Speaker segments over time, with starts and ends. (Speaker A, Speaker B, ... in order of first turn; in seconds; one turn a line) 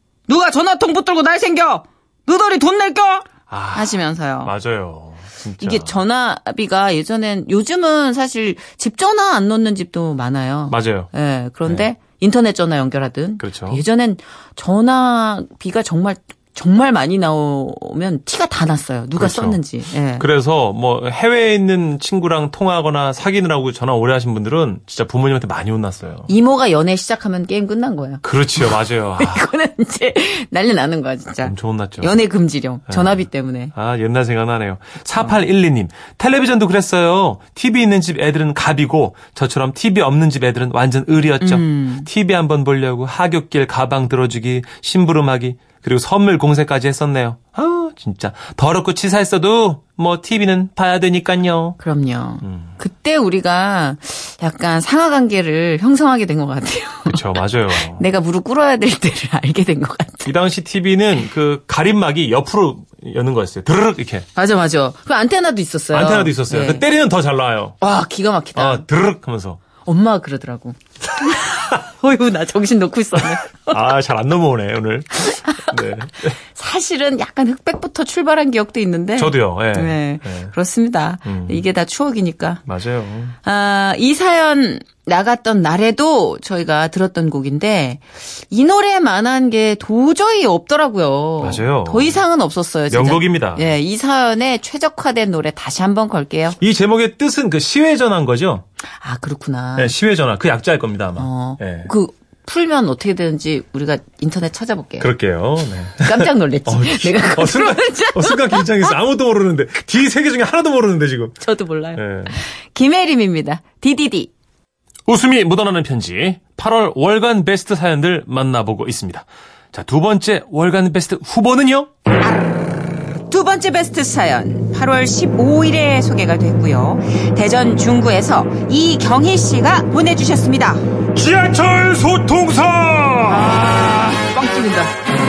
Speaker A: 0.3-4.5
Speaker B: 3.5-5.9
Speaker A: 5.6-20.2
Speaker B: 10.7-11.1
Speaker B: 13.4-13.8
Speaker B: 19.2-19.6
Speaker B: 20.2-26.3
Speaker A: 26.3-28.2
Speaker B: 28.2-29.4
Speaker A: 29.2-33.7
Speaker B: 31.4-32.2
Speaker B: 32.9-51.8
Speaker A: 41.4-42.1
Speaker A: 51.8-60.3
Speaker B: 52.4-52.7
Speaker B: 57.1-58.0
Speaker B: 60.2-64.2
Speaker A: 64.3-66.8
Speaker B: 65.9-67.8
Speaker A: 67.8-68.8
Speaker B: 68.5-69.6
Speaker A: 69.8-73.8
Speaker B: 73.7-76.4
Speaker A: 75.3-75.7
Speaker A: 76.4-82.6
Speaker B: 79.2-80.5
Speaker B: 81.2-81.6
Speaker B: 82.7-83.3
Speaker A: 83.4-96.6
Speaker B: 91.4-92.2
Speaker B: 92.9-93.7
Speaker B: 96.6-98.6
Speaker A: 99.0-99.9
Speaker B: 99.8-101.9
Speaker A: 101.2-105.1
Speaker B: 105.0-111.4
Speaker A: 106.0-108.9
Speaker A: 111.4-114.3
Speaker B: 112.0-112.3
Speaker B: 115.1-121.9
Speaker A: 123.2-130.8
Speaker B: 131.1-133.8
Speaker A: 133.2-134.9